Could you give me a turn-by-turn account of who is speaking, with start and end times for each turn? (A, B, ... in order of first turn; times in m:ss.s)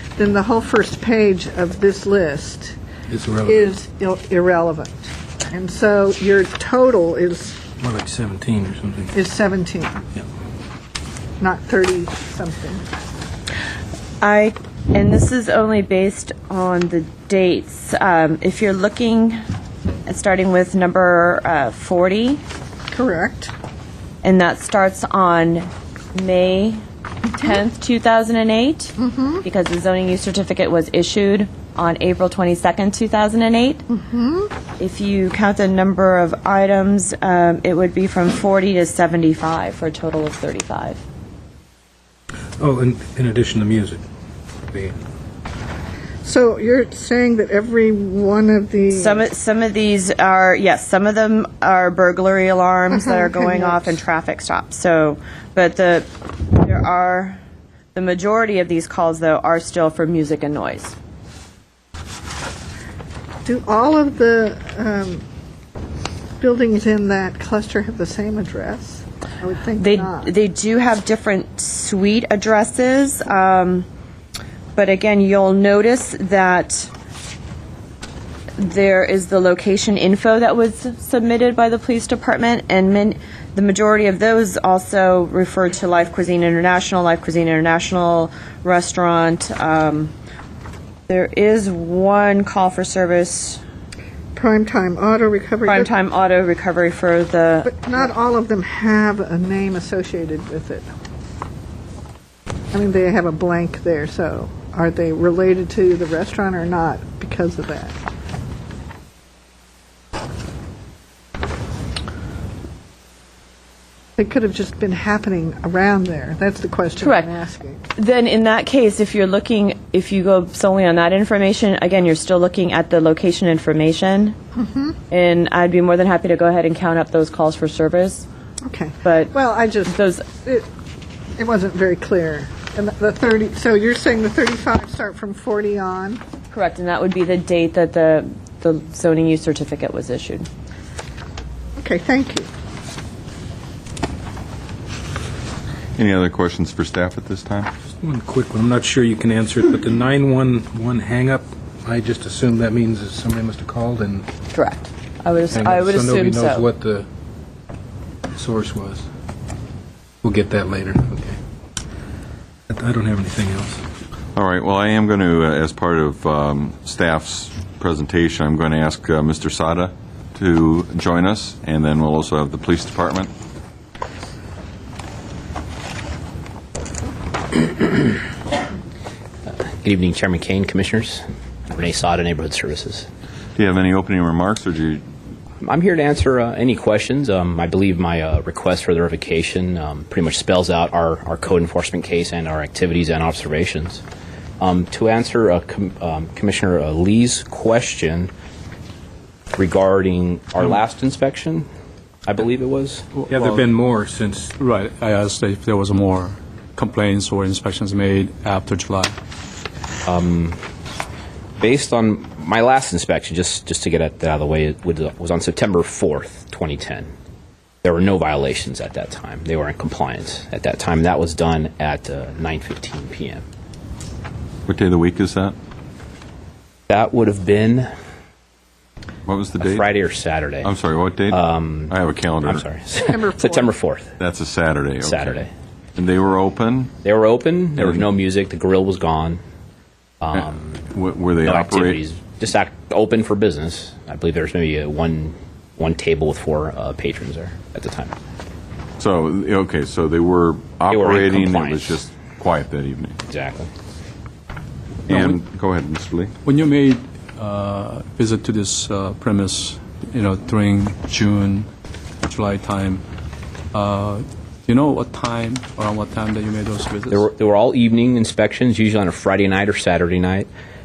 0:00.2-0:02.8 A
0:03.1-0:03.7 B
0:03.4-0:07.6 A
0:07.8-0:09.1 B
0:09.1-0:10.0 A
0:11.4-0:12.8 A
0:14.2-0:19.4 C
0:20.0-0:22.4 C
0:22.9-0:23.5 A
0:24.2-0:26.8 C
0:27.3-0:33.8 C
0:29.0-0:29.4 A
0:33.9-0:34.5 A
0:34.8-0:41.0 C
0:42.6-0:44.0 B
0:44.7-0:45.0 B
0:46.2-0:49.3 A
0:48.9-0:57.4 C
0:52.9-0:54.0 A
0:57.9-1:01.0 C
1:03.4-1:05.2 A
1:06.4-1:10.3 A
1:09.8-1:13.9 C
1:14.7-1:16.9 C
1:18.6-1:30.1 C
1:31.1-1:33.6 C
1:34.3-1:35.9 A
1:35.6-1:37.8 C
1:37.6-1:40.8 A
1:42.7-1:47.9 A
1:54.2-1:57.8 A
1:57.0-1:57.3 C
1:58.0-2:04.4 C
2:04.6-2:05.0 A
2:05.1-2:08.2 C
2:08.6-2:10.6 A
2:09.0-2:09.3 C
2:09.8-2:10.2 C
2:11.4-2:16.2 A
2:16.5-2:20.5 C
2:21.8-2:22.5 A
2:26.0-2:27.7 D
2:27.9-2:34.3 B
2:34.5-2:36.6 C
2:35.5-2:37.1 B
2:38.3-2:39.0 B
2:40.2-2:41.4 B
2:42.7-2:43.8 B
2:44.4-2:53.3 D
2:59.5-3:03.1 E
3:03.6-3:05.0 D
3:05.6-3:14.0 E
3:14.6-3:18.3 E
3:19.5-3:21.7 E
3:22.2-3:23.0 E
3:23.1-3:23.7 F
3:23.3-3:24.5 B
3:24.6-3:29.2 F
3:30.0-3:30.6 E
3:31.6-3:37.1 E
3:37.8-3:43.4 E
3:44.7-3:45.6 D
3:46.9-3:47.9 E
3:49.2-3:49.9 D
3:49.6-3:50.7 E
3:50.6-3:52.6 D
3:51.3-3:54.1 E
3:53.0-3:53.7 A
3:54.2-3:55.4 D
3:55.0-3:55.5 E
3:56.0-3:56.9 D
3:57.0-3:59.4 E
4:00.2-4:00.8 E
4:00.9-4:02.0 D
4:01.4-4:08.1 E
4:09.0-4:13.2 D
4:10.9-4:12.0 E
4:13.3-4:13.7 E
4:15.1-4:16.3 D
4:15.1-4:15.4 F
4:16.4-4:21.7 F
4:22.2-4:23.0 F
4:23.7-4:27.3 F
4:27.1-4:30.5 E